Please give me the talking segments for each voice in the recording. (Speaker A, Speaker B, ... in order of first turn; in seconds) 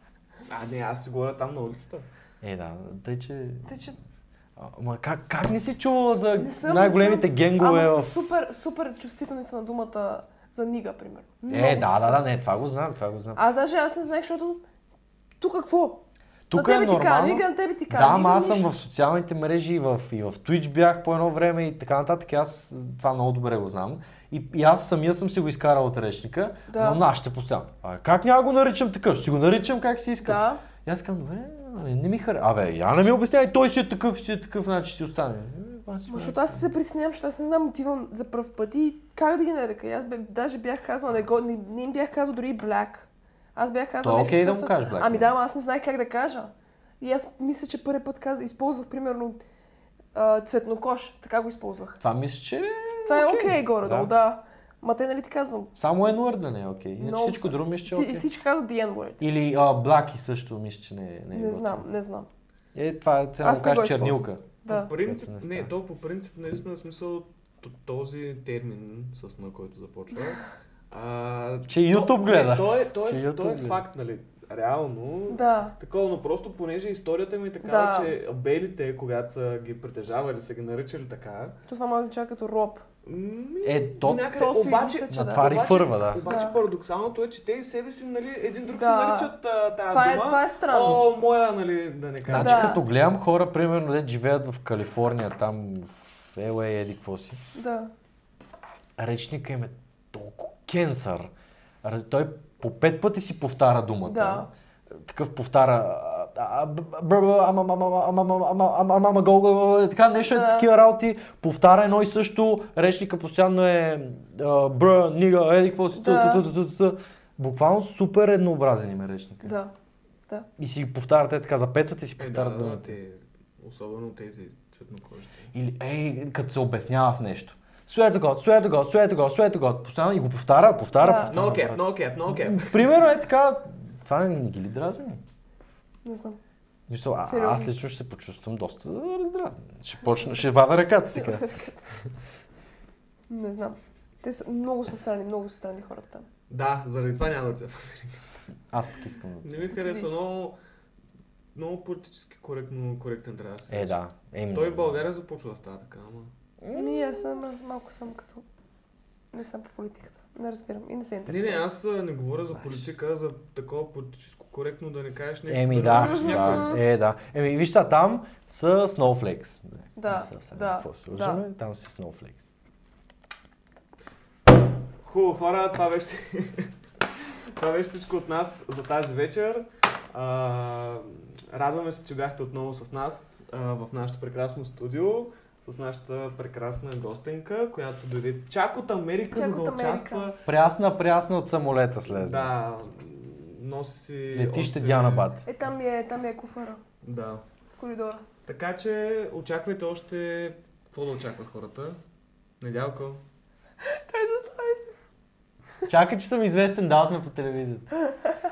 Speaker A: 0.5-2.1, 64.7-81.6, 83.0-92.8, 122.2-125.5, 131.3-133.1, 146.5-148.2, 149.4-150.6, 151.5-154.0, 154.5-156.3, 161.3-166.8, 175.0-176.7, 177.6-190.4, 192.1-195.3, 197.0-197.4, 198.4-202.0, 202.6-203.2
Speaker B: 2.4-3.7, 4.6-8.1, 11.5-13.4, 16.5-36.7, 44.0-45.3, 52.0-54.1, 55.7-58.3, 59.2-61.9, 62.7-65.7, 71.7-73.8, 83.6-84.5, 85.1-86.3, 92.3-97.4, 99.0-101.3, 101.8-119.5, 120.6-122.9, 125.5-135.2, 136.9-141.5, 148.7-149.8, 153.7-155.0, 156.6-157.4, 162.5-162.9, 165.5-172.5, 190.4-192.5, 194.3-195.4, 205.9-207.9
Speaker C: 3.7-4.0, 6.4-12.2, 13.4-14.6, 15.4-18.7, 26.7-27.0, 30.2-30.6, 36.1-49.4, 50.1-52.0, 53.1-55.7, 57.0-59.2, 61.3-62.3, 63.4-64.9, 75.3-75.8, 77.6-78.2, 81.7-82.8, 84.3-85.7, 86.2-86.6, 88.7-89.3, 89.9-91.1, 92.3-92.8, 97.5-97.9, 104.1-104.5, 110.2-110.7, 115.9-116.5, 119.4-119.7, 131.0-131.4, 136.1-136.4, 137.3-137.7, 141.1-141.8, 143.3-146.3, 156.7-158.4, 159.3-161.7, 165.9-166.6, 169.9-171.4, 189.3-190.3, 195.4-196.8, 197.8-198.2, 203.9-204.9